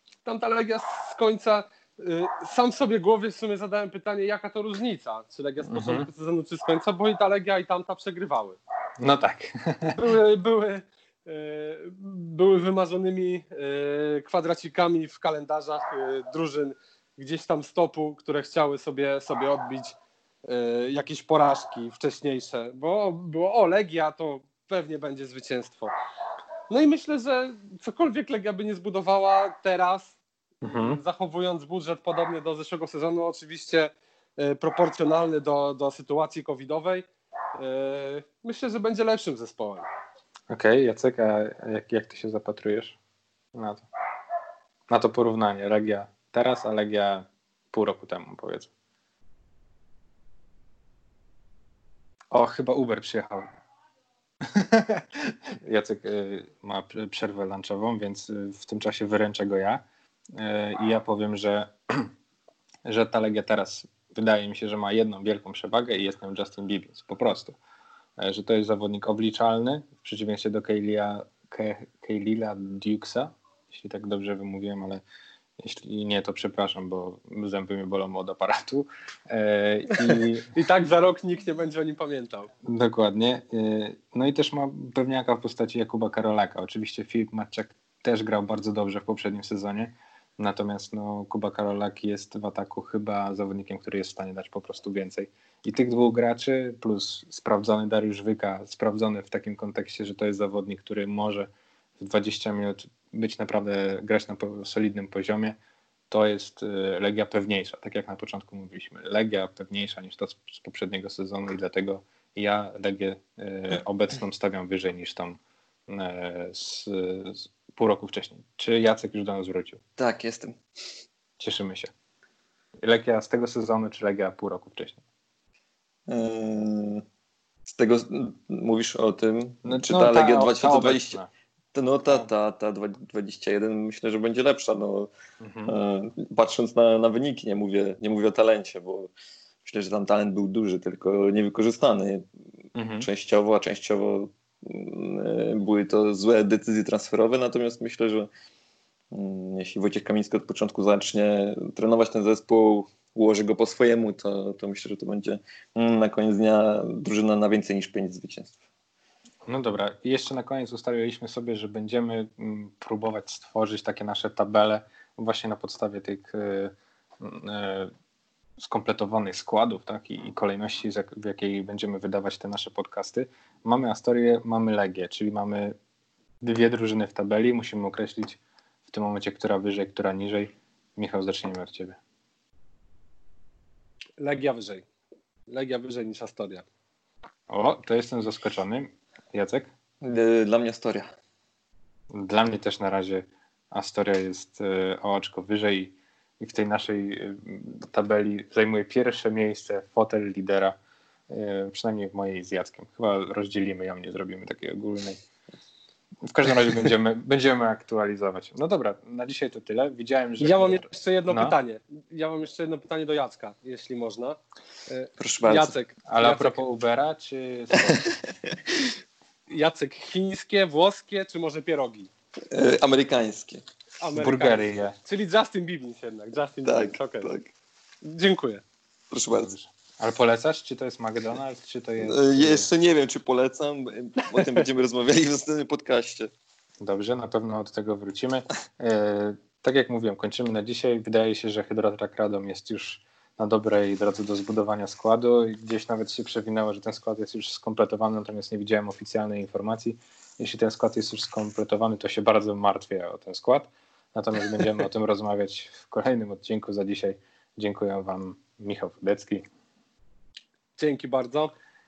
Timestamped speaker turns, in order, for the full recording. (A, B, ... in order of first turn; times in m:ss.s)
0:00.2-0:08.6 A
0:05.7-0:06.1 B
0:09.0-0:10.0 B
0:10.0-0:25.9 A
0:26.7-0:39.8 A
0:30.6-0:31.0 B
0:40.5-0:43.0 B
0:43.5-0:43.8 B
0:44.9-0:48.7 B
0:52.3-0:53.5 B
0:54.4-0:59.8 B
1:00.3-1:02.1 B
1:02.9-1:07.6 B
1:08.2-1:15.0 B
1:15.6-1:20.5 B
1:20.1-1:22.5 A
1:22.6-1:45.6 B
1:46.1-1:59.8 B
2:00.0-2:00.6 C
2:01.4-2:01.9 B
2:02.8-2:05.0 B
2:06.1-2:07.0 C
2:07.7-2:11.2 C
2:09.6-2:11.3 B
2:11.7-2:15.1 C
2:15.4-2:15.7 B
2:15.7-2:19.1 C
2:19.6-2:22.2 C
2:22.8-2:23.1 B
2:23.0-2:28.3 C
2:29.1-2:38.6 C
2:39.5-2:47.9 B
2:48.6-2:55.8 B
2:56.4-3:02.0 B
3:04.2-3:04.8 A
3:05.5-3:06.6 A
3:07.5-3:09.7 B
3:10.0-3:11.1 C
3:12.1-3:20.8 B
3:21.3-3:25.2 B
3:26.3-3:31.6 B
3:30.4-3:36.6 A
3:35.2-3:35.7 C
3:36.1-3:38.0 B
3:37.8-3:38.1 C
3:39.5-3:42.1 A
3:42.5-3:43.6 C
3:44.0-3:47.3 A
3:44.2-3:45.0 B
3:46.6-3:47.5 C
3:48.0-3:48.6 A
3:49.1-3:49.5 C
3:49.3-3:52.7 B
3:52.0-3:56.3 C
3:56.8-4:19.4 B
4:20.8-4:21.5 A